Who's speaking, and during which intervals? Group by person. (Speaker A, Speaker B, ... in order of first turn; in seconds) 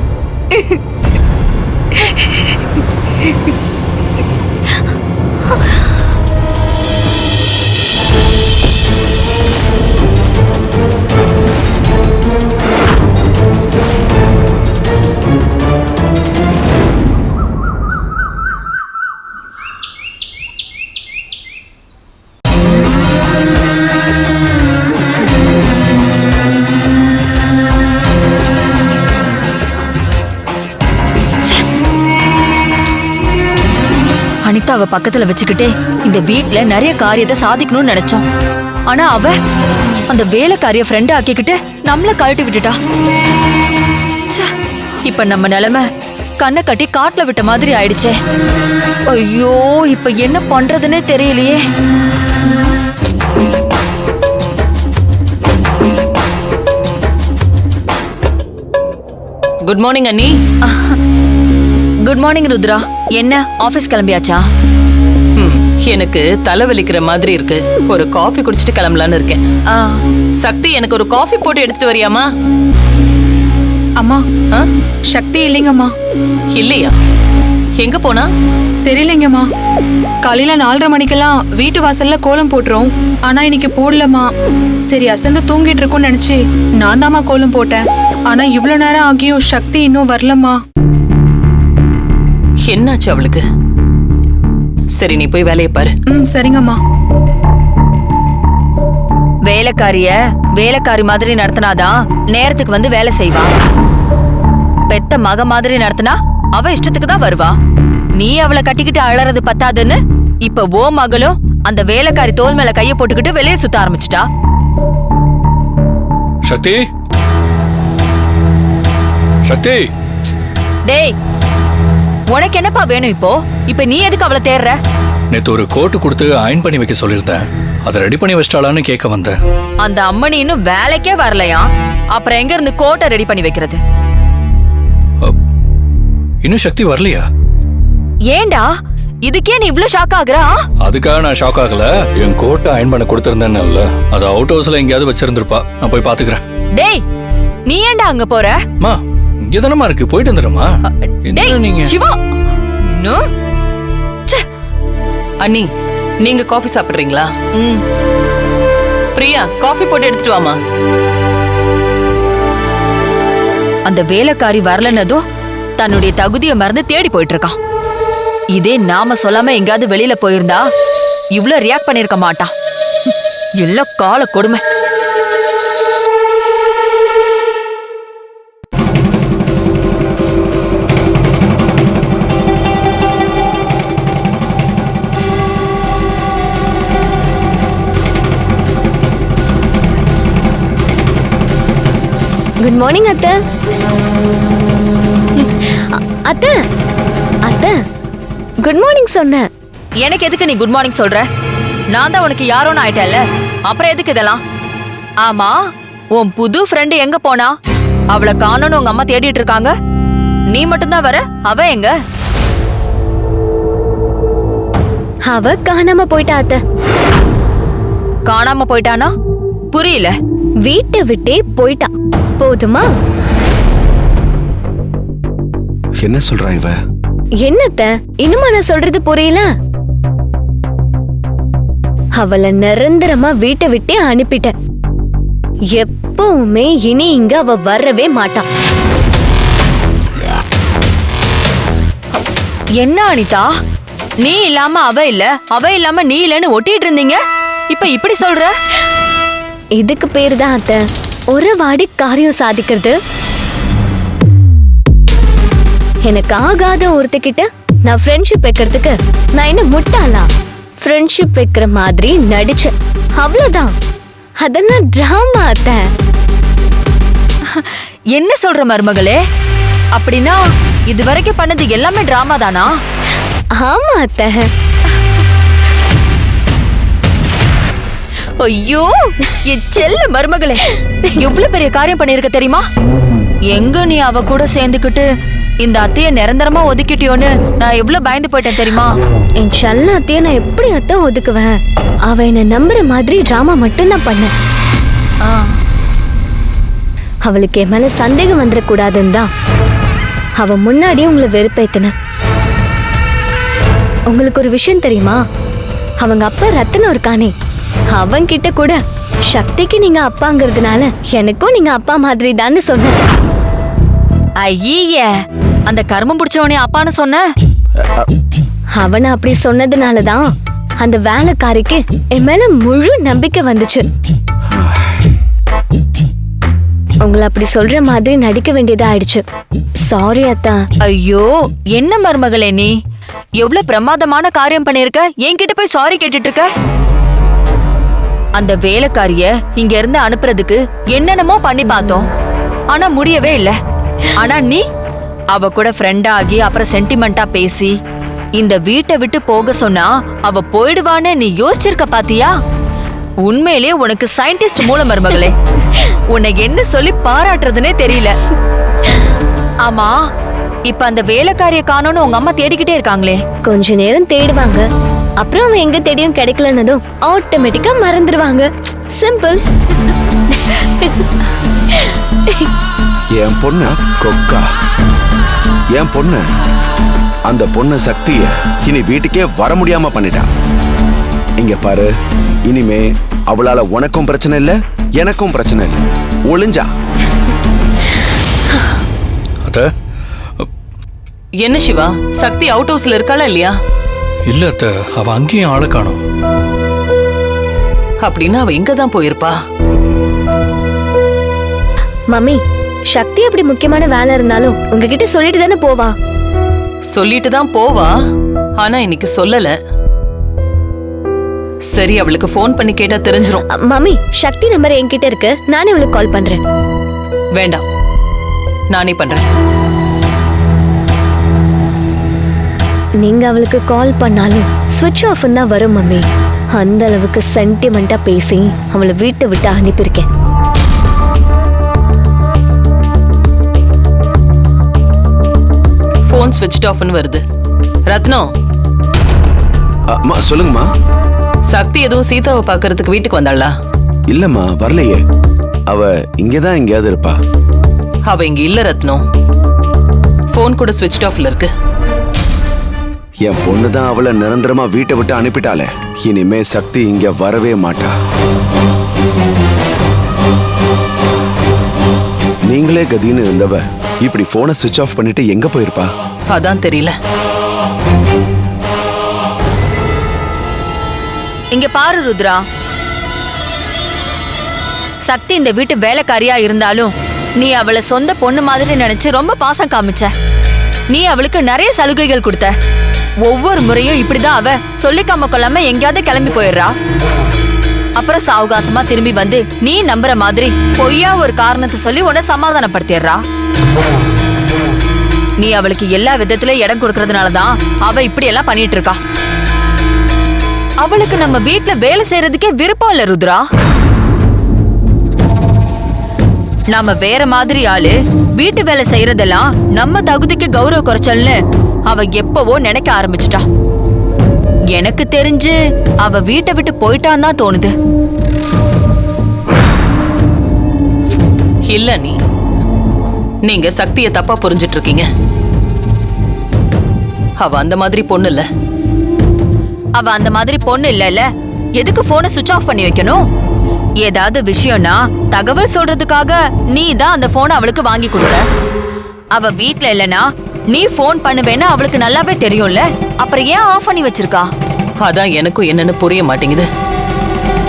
Speaker A: 34.5-38.2, 38.9-39.4, 40.1-42.8, 45.0-45.9, 46.4-48.2, 49.1-51.6, 60.6-61.0, 62.0-64.5, 69.7-70.0, 99.5-103.5, 104.9-107.6, 108.2-114.3, 120.9-121.1, 122.3-124.8, 129.8-133.8, 138.3-138.7, 139.2-140.6, 146.7-147.0, 147.7-148.6, 151.1-152.2, 152.9-153.2, 157.6-157.8, 163.9-165.2, 165.8-167.6, 168.5-170.6, 171.3-172.5, 173.6-174.6, 200.0-201.3, 201.9-204.4, 205.2-205.6, 206.1-207.6, 208.1-209.7, 210.5-211.9, 218.3-219.1, 219.7-220.1, 242.8-243.5, 244.2-248.5, 267.4-269.2, 270.0-272.8, 278.4-280.6, 281.2-282.6, 283.5-285.1, 285.6-288.9, 295.2-295.6, 314.4-317.2, 330.9-332.7, 333.4-336.5, 338.4-342.1, 342.7-343.6, 344.2-344.6, 345.3-347.7, 348.4-352.3, 353.2-358.2, 359.6-360.0, 360.7-363.2, 471.5-472.4, 475.1-480.1, 480.9-482.5, 483.2-486.7, 488.0-493.2, 495.4-499.0, 500.8-503.4, 506.7-513.4, 514.7-517.7, 530.0-533.2, 534.0-538.5, 539.3-544.5
Speaker B: 59.6-60.3, 65.4-69.4, 70.4-72.2, 76.5-76.9, 77.8-78.3, 92.7-93.4, 95.0-95.9, 155.4-155.7, 156.2-157.3, 159.2-160.6, 391.4-393.5, 398.0-399.4, 406.9-407.9, 408.6-409.5, 411.7-413.4, 417.4-417.6, 418.7-419.2, 436.1-437.2, 437.9-438.3, 441.5-443.5, 448.1-449.0, 450.3-451.5, 466.3-466.9, 521.7-522.2, 523.5-525.0, 527.4-528.5, 545.0-546.7
Speaker C: 75.1-75.9, 78.9-79.4, 80.2-84.2, 84.9-87.8, 88.3-90.6, 96.1-96.8
Speaker D: 116.5-116.8, 119.5-119.9, 125.3-129.4, 136.4-137.2, 140.8-146.4, 148.8-150.7, 151.3-151.9, 394.3-396.0
Speaker E: 192.6-193.3, 195.4-196.5, 197.5-197.8, 198.6-199.5, 215.3-216.6, 220.7-221.9, 222.4-222.9, 227.4-229.5, 232.2-234.5, 235.8-238.4, 249.8-250.8, 251.3-253.0, 256.1-260.3, 260.8-263.7, 264.4-265.8, 273.6-274.5, 289.4-291.5, 292.1-294.3, 297.2-299.3, 300.4-301.9, 304.1-305.2, 306.0-307.3, 307.9-308.8, 309.3-313.0, 318.8-320.3, 320.8-323.9, 327.0-329.2, 329.9-330.6, 363.4-364.7, 365.2-369.4, 370.3-371.0, 371.7-372.5, 402.1-402.4, 402.9-405.9, 413.5-416.4, 423.0-430.1
Speaker F: 226.0-226.8, 324.5-324.9, 373.2-374.5, 375.7-376.2, 377.3-380.3, 381.4-381.9, 382.5-386.7, 439.9-440.7, 444.1-445.0, 445.7-447.2, 453.2-457.9, 462.5-465.9